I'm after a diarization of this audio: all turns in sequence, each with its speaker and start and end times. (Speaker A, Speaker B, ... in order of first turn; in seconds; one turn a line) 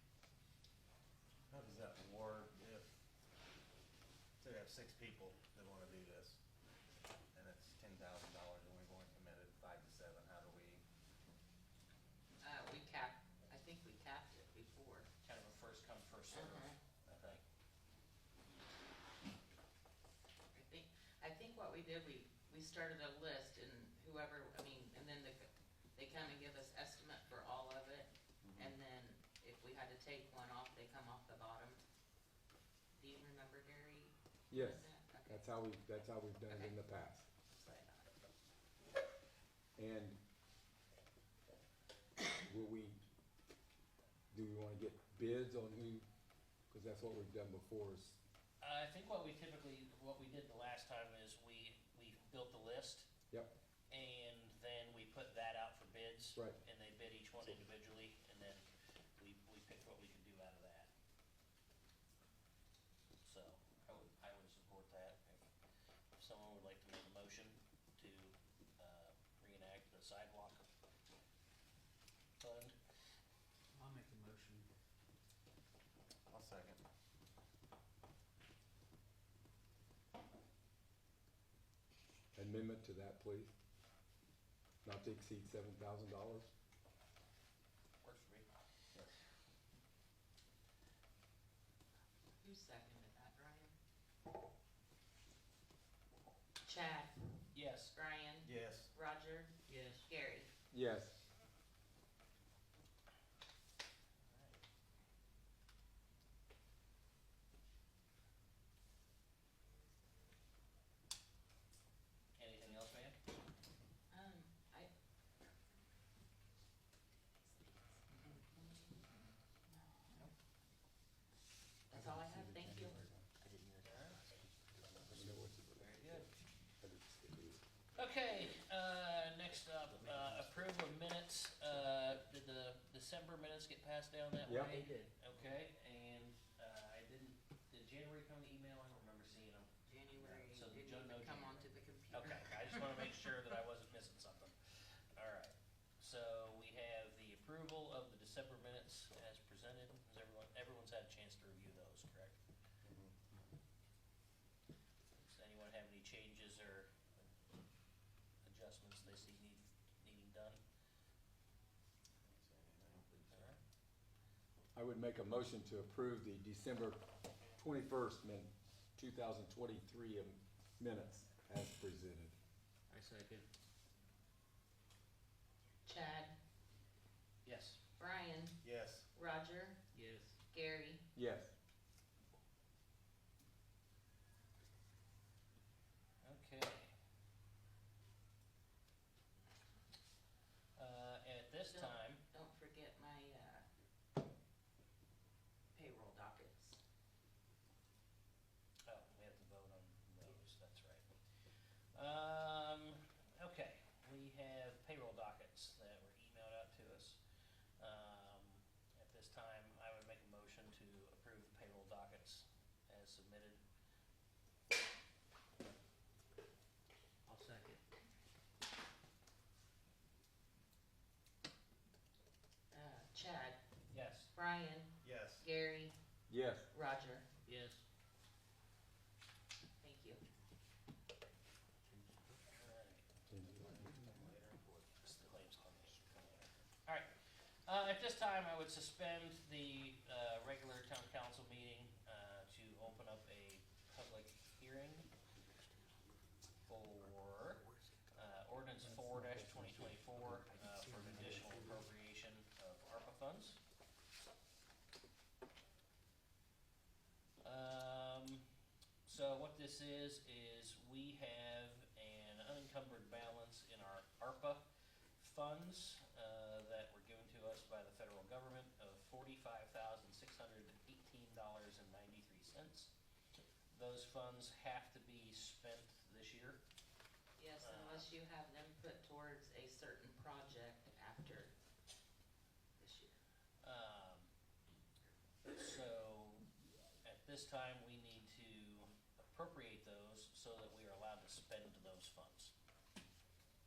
Speaker A: 1.5-2.9
Speaker A: 4.4-6.4
Speaker A: 7.3-10.8
Speaker B: 12.4-15.1
Speaker C: 15.2-17.4
Speaker B: 16.3-16.8
Speaker A: 17.1-17.4
Speaker B: 20.5-31.8
Speaker A: 28.4-28.7
Speaker B: 32.9-35.5
Speaker D: 34.5-37.3
Speaker B: 36.5-36.7
Speaker B: 37.5-38.1
Speaker D: 39.8-40.2
Speaker D: 42.4-43.0
Speaker D: 44.3-46.0
Speaker D: 46.7-48.2
Speaker C: 48.6-53.1
Speaker C: 53.9-58.6
Speaker C: 59.2-60.9
Speaker C: 63.2-65.4
Speaker C: 66.2-70.6
Speaker C: 72.4-72.7
Speaker E: 73.7-74.7
Speaker A: 76.3-76.8
Speaker D: 82.3-83.5
Speaker D: 84.8-86.5
Speaker C: 88.0-88.5
Speaker B: 92.4-93.7
Speaker B: 96.6-97.3
Speaker C: 97.5-97.9
Speaker B: 97.9-100.5
Speaker A: 98.4-98.9
Speaker E: 99.7-100.1
Speaker D: 100.7-101.2
Speaker C: 104.3-104.6
Speaker C: 112.4-113.2
Speaker B: 114.1-114.9
Speaker B: 118.3-118.7
Speaker B: 119.7-120.3
Speaker B: 121.9-123.0
Speaker D: 121.9-123.3
Speaker E: 123.4-125.9
Speaker C: 123.8-124.2
Speaker D: 125.1-126.2
Speaker C: 125.7-126.3
Speaker D: 126.8-127.6
Speaker C: 127.9-152.3
Speaker E: 129.9-130.8
Speaker D: 134.4-134.8
Speaker E: 134.5-135.1
Speaker B: 139.8-142.8
Speaker A: 152.8-153.2
Speaker C: 155.1-156.9
Speaker C: 158.4-160.6
Speaker A: 162.3-163.5
Speaker C: 163.1-163.6
Speaker D: 164.7-167.0
Speaker D: 167.6-172.3
Speaker E: 172.9-173.5
Speaker B: 175.8-176.3
Speaker C: 177.4-177.8
Speaker B: 178.0-178.6
Speaker A: 178.6-179.1
Speaker B: 179.1-179.8
Speaker E: 179.9-180.4
Speaker B: 180.5-181.0
Speaker D: 181.1-181.5
Speaker C: 186.2-186.9
Speaker C: 190.8-192.2
Speaker B: 191.7-193.6
Speaker B: 195.7-196.8
Speaker C: 198.9-201.1
Speaker C: 201.9-207.2
Speaker C: 207.8-213.6
Speaker E: 217.3-217.8
Speaker B: 222.7-223.6
Speaker C: 223.9-224.3
Speaker B: 224.3-225.9
Speaker A: 225.0-225.5
Speaker D: 226.3-226.7
Speaker B: 226.7-227.3
Speaker E: 227.4-227.8
Speaker B: 229.8-230.2
Speaker E: 231.9-232.4
Speaker C: 232.5-233.1
Speaker D: 233.3-233.9
Speaker A: 233.5-235.0
Speaker C: 235.0-237.1
Speaker C: 237.6-245.1
Speaker C: 246.7-253.6
Speaker E: 247.7-248.0
Speaker D: 248.8-250.3
Speaker E: 250.6-251.8
Speaker D: 251.1-251.7
Speaker C: 257.4-258.5
Speaker C: 259.1-264.6
Speaker C: 265.2-272.9
Speaker C: 273.7-276.6
Speaker B: 277.4-281.5
Speaker C: 277.6-278.1
Speaker B: 282.8-283.2
Speaker C: 283.6-284.3
Speaker C: 285.5-286.4
Speaker C: 287.0-292.5